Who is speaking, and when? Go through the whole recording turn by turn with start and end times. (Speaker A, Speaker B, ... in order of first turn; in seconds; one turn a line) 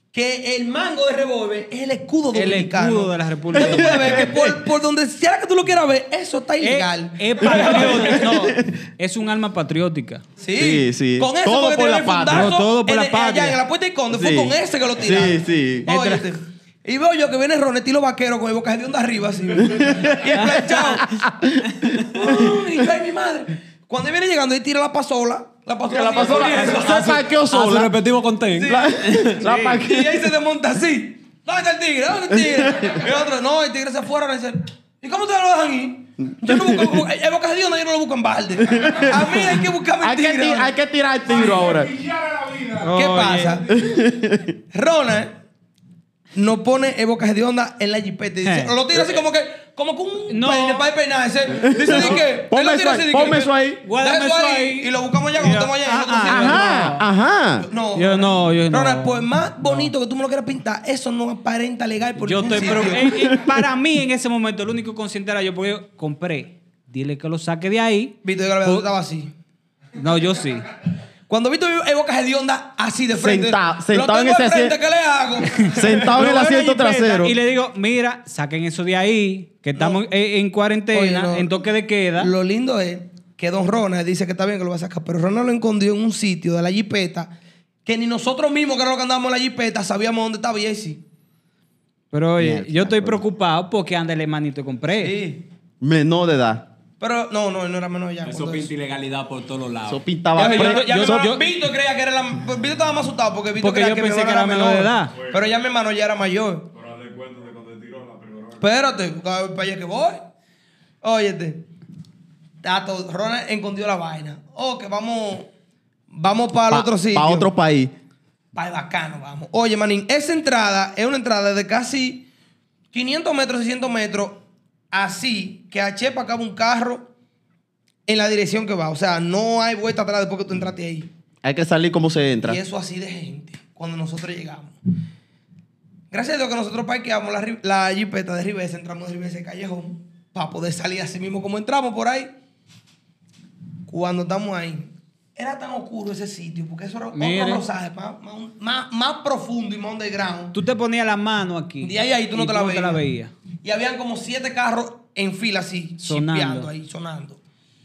Speaker A: 0.1-8.3
Speaker B: 2.3-4.2
Speaker C: 3.6-4.6
Speaker B: 6.6-10.2
Speaker C: 7.6-8.8
Speaker A: 10.4-21.1
Speaker C: 10.6-12.6
Speaker B: 12.3-13.6
Speaker C: 14.1-15.9
Speaker B: 15.9-16.3
Speaker C: 19.6-22.8
Speaker D: 20.5-20.9
Speaker A: 22.1-27.1
Speaker C: 25.9-27.9
Speaker D: 26.2-29.6
Speaker A: 28.6-40.7
Speaker C: 28.6-30.3
Speaker C: 32.3-33.0
Speaker C: 36.5-37.0
Speaker C: 38.7-42.0
Speaker E: 41.3-43.0
Speaker B: 42.8-43.6
Speaker A: 43.0-43.7
Speaker E: 43.7-44.0
Speaker C: 43.7-44.5
Speaker A: 44.7-45.4
Speaker A: 46.3-56.9
Speaker B: 48.4-48.7
Speaker B: 50.3-50.9
Speaker C: 51.6-53.8
Speaker B: 53.8-57.0
Speaker C: 56.3-57.7
Speaker A: 57.6-63.5
Speaker B: 58.0-59.9
Speaker B: 62.2-68.9
Speaker A: 68.2-69.3
Speaker B: 70.0-70.7
Speaker A: 71.3-76.6
Speaker C: 73.1-74.8
Speaker B: 75.5-82.3
Speaker C: 75.7-77.4
Speaker A: 80.9-81.6
Speaker A: 82.2-87.3
Speaker A: 87.9-91.0
Speaker B: 92.1-95.2
Speaker C: 92.4-93.2
Speaker A: 95.0-95.5
Speaker C: 95.8-96.7
Speaker A: 97.0-98.7
Speaker D: 98.2-100.0
Speaker C: 99.9-101.3
Speaker A: 100.3-106.7
Speaker B: 100.4-101.4
Speaker B: 103.6-105.2
Speaker E: 105.2-105.4
Speaker E: 106.7-108.6
Speaker A: 108.6-110.2
Speaker A: 111.0-111.6
Speaker A: 112.6-115.5
Speaker A: 116.1-117.5
Speaker C: 116.7-117.9
Speaker A: 118.5-122.3
Speaker A: 122.9-127.1
Speaker A: 128.1-131.1
Speaker C: 131.4-132.6
Speaker A: 132.4-134.8
Speaker A: 136.1-142.3
Speaker A: 143.9-150.6
Speaker B: 147.1-147.7
Speaker B: 150.5-153.3
Speaker A: 151.8-153.1
Speaker A: 153.6-157.4
Speaker B: 156.0-156.7